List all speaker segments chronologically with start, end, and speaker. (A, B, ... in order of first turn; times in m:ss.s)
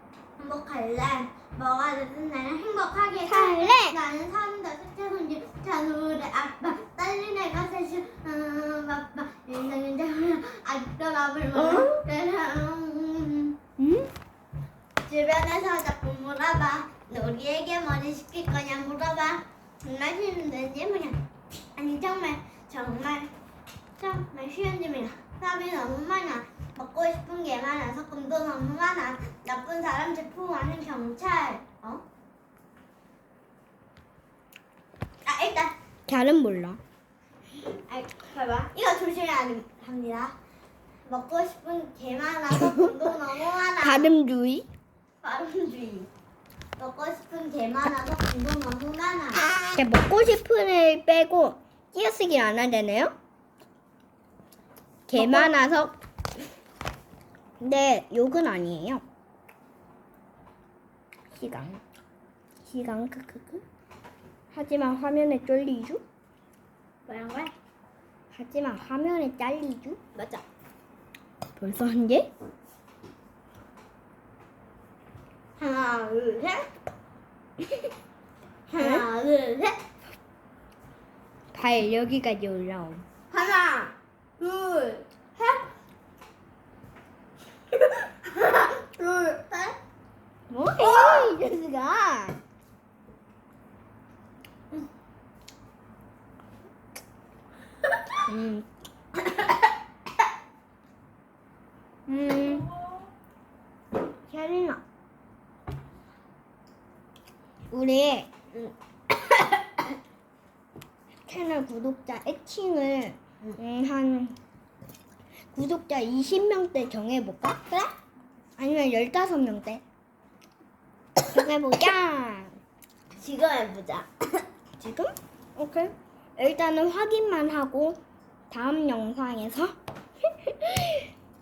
0:00.4-0:13.6 A
0:03.2-0:04.0 B
0:11.6-0:11.9 B
0:13.8-0:14.1 B
0:15.1-0:21.2 A
0:21.8-0:23.3 A
0:24.0-0:32.0 A
0:35.2-0:35.7 A
0:36.1-0:36.8 B
0:37.6-0:40.3 A
0:41.1-0:44.1 A
0:43.8-0:44.7 B
0:45.2-0:46.1 A
0:46.8-0:49.5 A
0:49.7-0:53.1 B
0:55.1-0:55.9 B
0:55.1-0:55.6 A
0:57.6-0:59.0 B
1:01.3-1:01.8 B
1:02.6-1:03.6 B
1:04.5-1:06.0 B
1:07.0-1:07.5 A
1:08.3-1:10.0 B
1:10.2-1:10.4 A
1:11.6-1:12.3 B
1:15.6-1:16.7 A
1:18.7-1:19.8 A
1:18.8-1:19.0 B
1:21.5-1:23.0 B
1:23.3-1:25.6 A
1:27.8-1:29.8 A
1:30.5-1:32.4 B
1:30.8-1:31.3 A
1:38.2-1:38.7 B
1:42.1-1:42.7 B
1:44.3-1:44.8 B
1:47.7-1:48.3 B
1:49.3-1:49.6 A
1:51.3-1:54.4 B
1:55.5-1:57.6 B
1:58.6-1:59.8 B
2:01.3-2:02.5 B
2:03.2-2:04.1 A
2:04.8-2:08.0 B
2:08.5-2:09.7 B
2:10.5-2:11.1 B